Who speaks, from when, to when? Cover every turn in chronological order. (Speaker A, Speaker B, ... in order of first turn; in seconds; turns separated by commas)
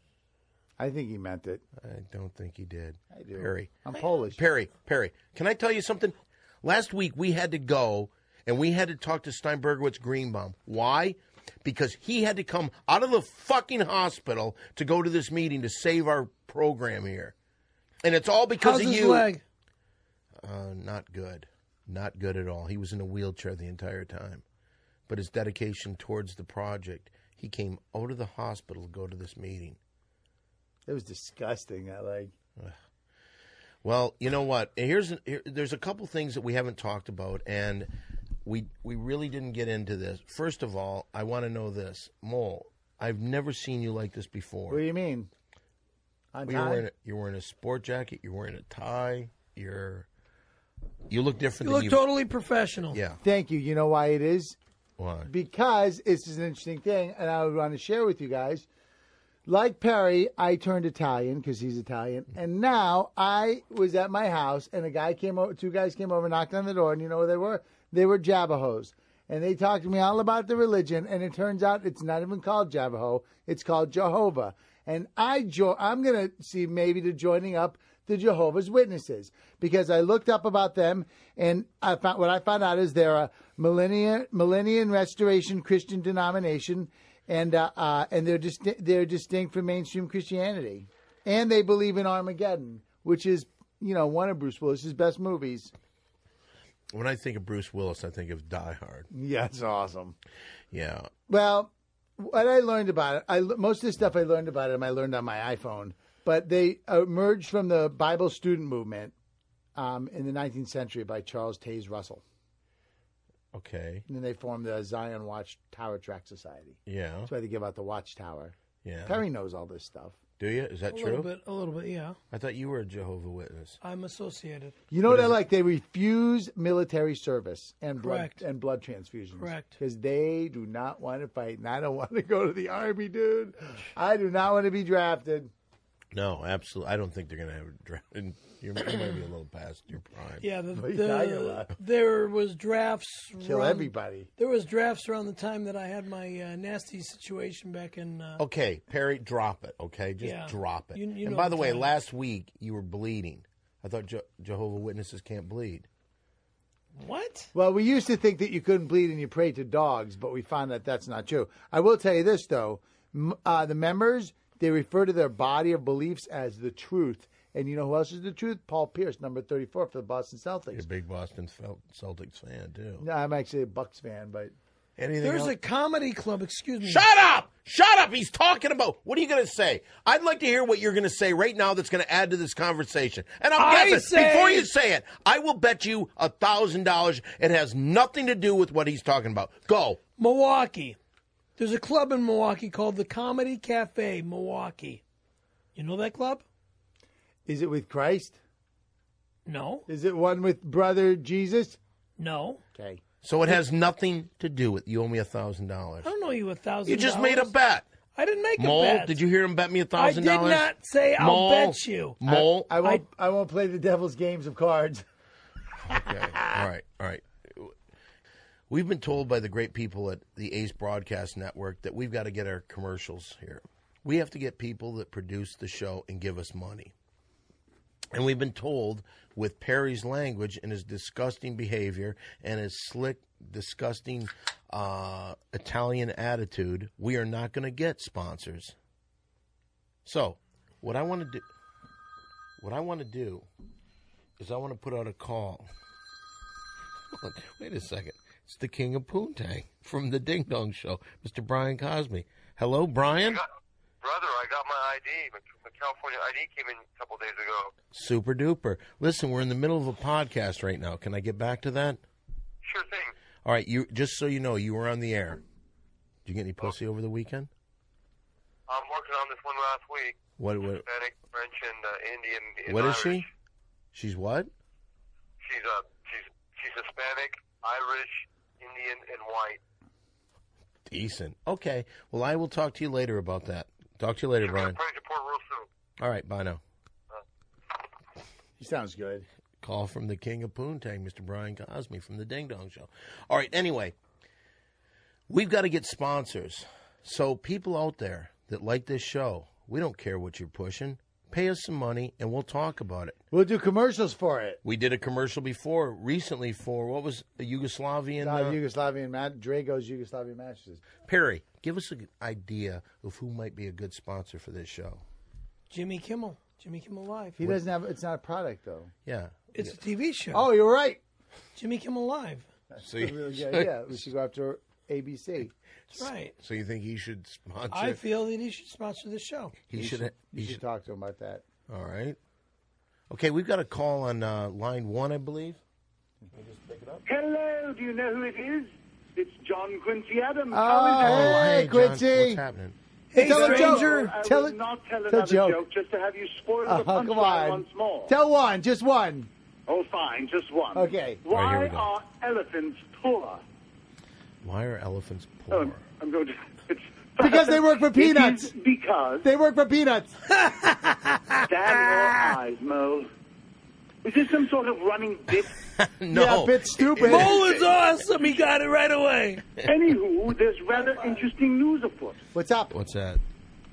Speaker A: 0.8-1.6, Speaker B: 1.8-3.7, Speaker A: 3.1-4.4, Speaker B: 4.3-17.3, Speaker B: 18.0-19.3, Speaker C: 18.6-19.4, Speaker B: 20.4-24.4, Speaker B: 25.1-29.8, Speaker A: 30.9-32.3, Speaker B: 33.8-37.9, Speaker B: 38.4-44.8, Speaker A: 44.7-45.3, Speaker A: 46.3-46.8, Speaker B: 46.4-50.1, Speaker B: 51.1-52.0, Speaker C: 51.6-53.0, Speaker B: 52.9-53.2, Speaker A: 53.2-54.6, Speaker B: 55.0-55.3, Speaker A: 55.2-58.7, Speaker A: 59.5-95.7, Speaker B: 96.9-99.1, Speaker A: 99.1-100.2, Speaker B: 100.7-101.1, Speaker A: 101.3-109.1, Speaker A: 109.8-112.2, Speaker B: 113.5-114.1, Speaker A: 114.1-120.2, Speaker B: 116.8-117.3, Speaker B: 118.8-119.2, Speaker B: 120.4-121.3, Speaker C: 120.9-122.2, Speaker B: 122.3-123.8, Speaker C: 123.8-124.8, Speaker A: 124.9-135.5, Speaker B: 125.1-125.4, Speaker C: 128.0-128.4, Speaker C: 129.4-129.8, Speaker B: 136.1-140.4, Speaker C: 140.4-148.4, Speaker A: 140.7-141.7, Speaker A: 143.4-144.3, Speaker B: 148.4-155.9, Speaker C: 150.2-151.9, Speaker C: 157.0-157.5, Speaker A: 157.5-170.8, Speaker B: 170.7-173.1, Speaker A: 173.0-174.5, Speaker B: 175.0-175.5, Speaker C: 175.2-177.0, Speaker B: 176.8-190.0, Speaker C: 183.6-184.7, Speaker C: 190.2-191.0, Speaker C: 191.6-195.0, Speaker C: 195.8-196.4, Speaker A: 197.5-198.4, Speaker C: 199.4-199.9, Speaker A: 199.9-201.8, Speaker C: 202.2-202.6, Speaker A: 202.8-203.0, Speaker B: 203.2-206.1, Speaker C: 206.0-207.5, Speaker B: 206.8-207.9, Speaker C: 208.1-209.2, Speaker B: 208.6-212.8, Speaker C: 209.9-212.2, Speaker A: 212.2-215.0, Speaker A: 215.9-216.6, Speaker B: 215.9-217.8, Speaker B: 218.7-226.9, Speaker B: 228.1-238.8, Speaker B: 240.1-241.4, Speaker B: 242.6-243.4, Speaker B: 244.4-245.7, Speaker B: 247.1-253.4, Speaker D: 254.0-257.7, Speaker B: 257.9-262.0, Speaker D: 262.6-263.1, Speaker B: 263.4-265.4, Speaker B: 266.2-267.5, Speaker D: 268.7-270.2, Speaker B: 270.4-270.8, Speaker D: 270.7-273.2, Speaker B: 272.7-273.3, Speaker B: 273.9-274.5, Speaker D: 275.4-279.6, Speaker B: 280.9-284.8, Speaker D: 284.4-285.7, Speaker B: 286.0-286.6, Speaker A: 288.6-289.3, Speaker B: 289.6-293.9, Speaker B: 295.3-303.2, Speaker A: 303.3-304.6, Speaker B: 304.6-308.6, Speaker A: 308.2-310.8, Speaker B: 311.1-315.0, Speaker C: 315.7-317.4, Speaker A: 317.4-318.9, Speaker B: 319.1-319.8, Speaker C: 319.5-320.5, Speaker A: 320.3-321.0, Speaker C: 321.6-322.4, Speaker A: 322.7-325.5, Speaker B: 322.8-324.0, Speaker C: 325.9-326.4, Speaker B: 325.9-328.0, Speaker C: 327.7-329.6, Speaker B: 329.7-330.6, Speaker A: 329.7-331.4, Speaker B: 331.7-332.2, Speaker B: 333.1-335.6, Speaker B: 336.3-337.1, Speaker E: 337.1-341.6, Speaker A: 340.5-342.4, Speaker B: 341.0-342.8, Speaker C: 343.1-344.1, Speaker A: 343.2-344.6, Speaker E: 343.2-348.1, Speaker A: 345.1-345.6, Speaker A: 346.6-349.3, Speaker E: 349.7-353.4, Speaker A: 350.7-351.2, Speaker B: 351.3-351.9, Speaker B: 354.4-355.8, Speaker E: 355.5-359.2, Speaker A: 357.2-358.5, Speaker A: 359.2-360.2, Speaker C: 360.3-362.3, Speaker E: 361.4-363.1, Speaker E: 364.0-365.6, Speaker B: 365.7-367.9, Speaker A: 366.1-367.4, Speaker C: 367.0-369.4, Speaker E: 369.6-372.2, Speaker A: 372.3-372.8, Speaker B: 372.7-373.2